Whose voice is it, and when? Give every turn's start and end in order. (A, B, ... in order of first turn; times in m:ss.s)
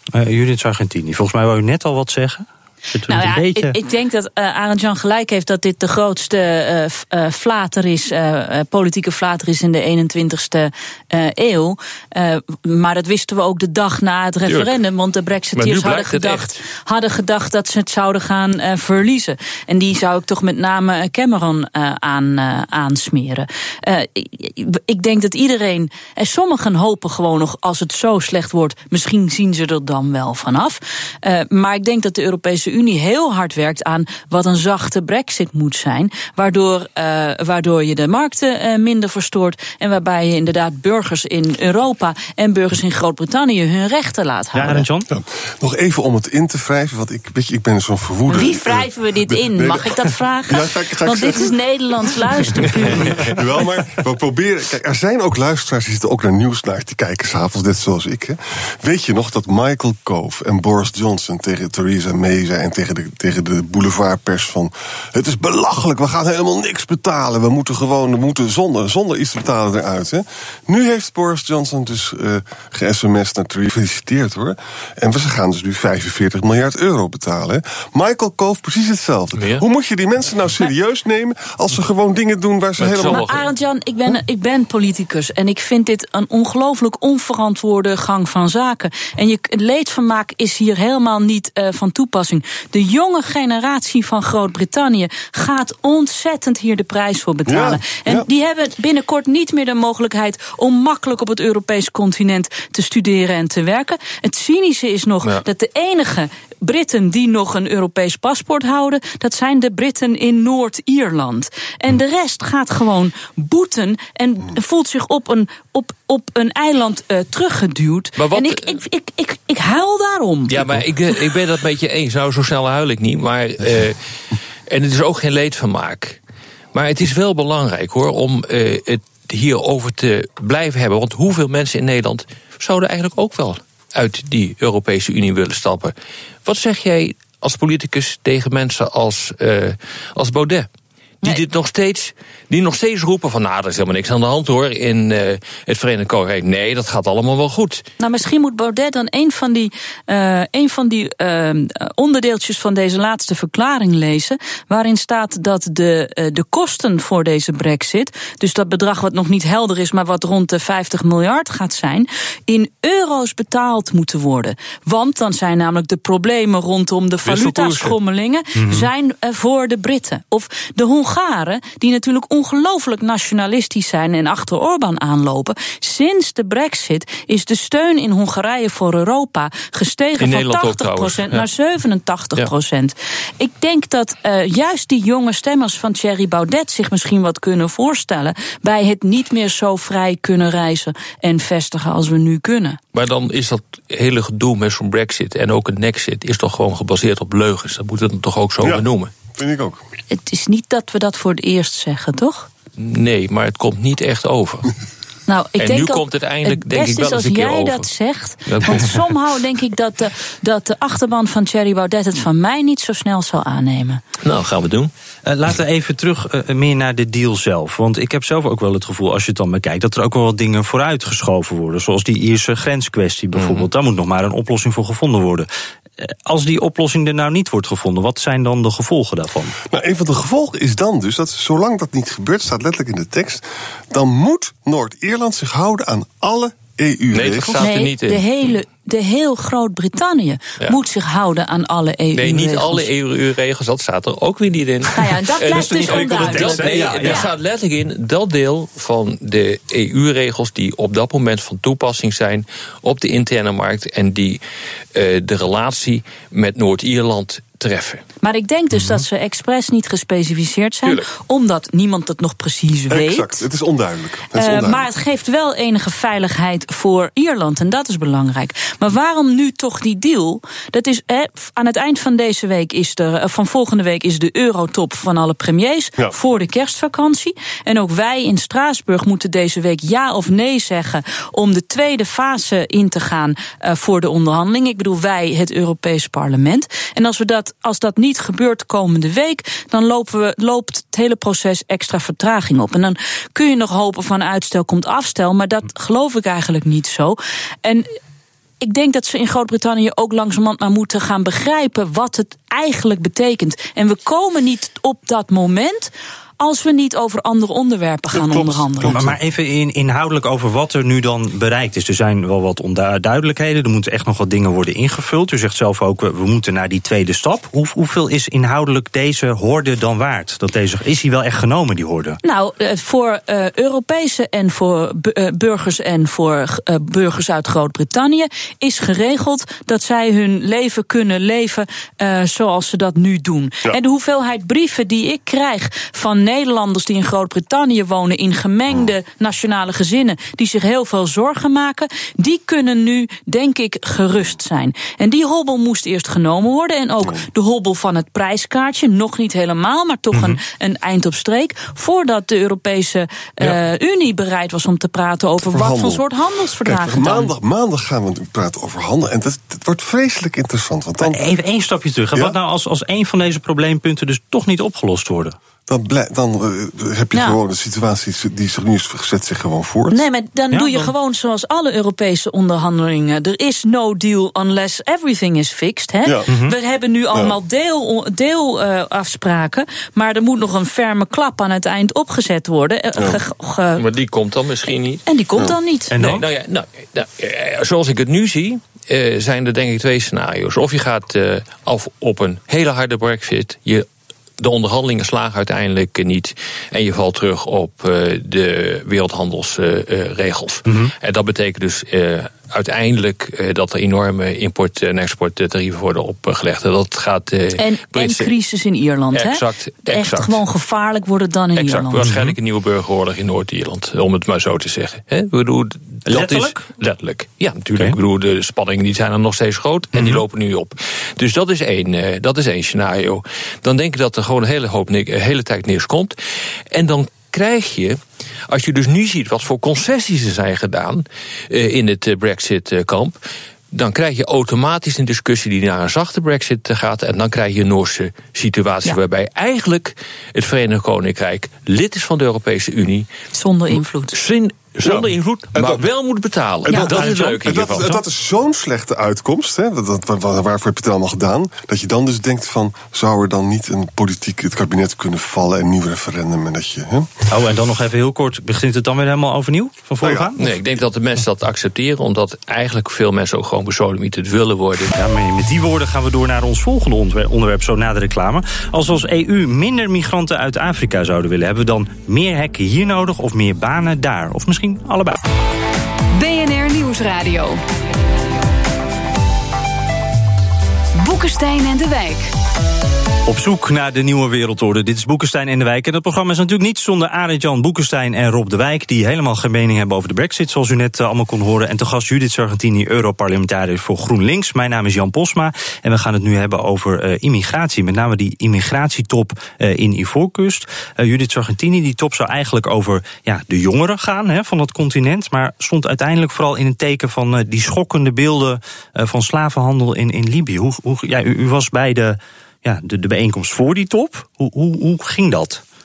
0:00.1-0:03.7 A
0:03.1-0:44.8 B
0:14.4-0:14.7 C
0:15.6-0:16.6 C
0:44.5-0:45.1 A
0:45.1-1:23.3 D
0:48.3-0:53.4 B
1:19.4-1:19.6 C
1:22.8-1:23.5 C
1:23.1-2:00.6 B
1:37.5-1:38.2 D
1:58.2-1:58.8 C
2:00.5-2:04.0 C
2:04.7-2:06.2 C
2:06.7-2:15.9 C
2:16.4-2:20.7 C
2:21.2-2:27.8 C
2:28.0-3:12.8 B
2:47.2-2:48.0 C
2:48.6-2:48.9 A
3:00.2-3:01.4 C
3:12.9-3:19.1 C
3:19.3-3:19.8 D
3:20.1-3:22.5 B
3:22.8-3:24.7 C
3:25.3-3:34.0 B
3:25.6-3:27.9 C
3:28.5-3:29.0 C
3:34.2-3:34.9 C
3:35.2-3:45.5 A
3:43.3-3:43.7 C
3:46.0-3:49.5 A
3:49.6-3:57.7 D
3:57.1-3:58.3 C
3:57.6-4:02.9 B
4:02.1-4:14.4 C
4:04.9-4:07.3 B
4:05.4-4:07.3 A
4:14.9-4:18.0 C
4:18.2-4:23.4 B
4:22.9-4:24.9 D
4:24.4-4:57.9 B
4:58.6-5:09.0 B
5:08.1-5:09.2 D
5:08.8-5:22.2 A
5:22.2-5:57.3 B
5:50.1-5:50.4 A
5:55.4-5:56.0 D
5:56.6-6:01.3 D
6:01.0-6:05.4 A
6:05.7-6:10.0 D
6:07.1-6:07.4 B
6:09.9-6:23.8 B
6:10.5-6:10.9 A
6:16.3-6:16.6 A
6:23.8-6:25.0 C
6:25.0-6:25.9 B
6:25.9-6:26.2 A
6:26.0-6:33.8 C
6:34.4-6:48.4 C
6:40.7-6:40.9 A
6:47.6-6:52.0 B
6:49.1-6:50.4 C
6:51.6-7:06.2 C
6:52.0-6:52.4 A
6:56.0-6:56.6 A
6:59.9-7:00.2 A
7:06.7-7:13.2 C
7:13.7-7:23.1 C
7:23.3-7:24.1 B
7:24.1-7:28.0 C
7:24.8-7:25.8 D
7:26.6-7:37.2 D
7:26.7-7:27.3 B
7:37.3-7:40.4 A
7:40.0-7:40.6 D
7:40.4-7:44.9 C
7:44.9-7:55.2 A
7:56.1-7:57.6 E
8:01.0-8:02.3 E
8:03.2-8:35.6 A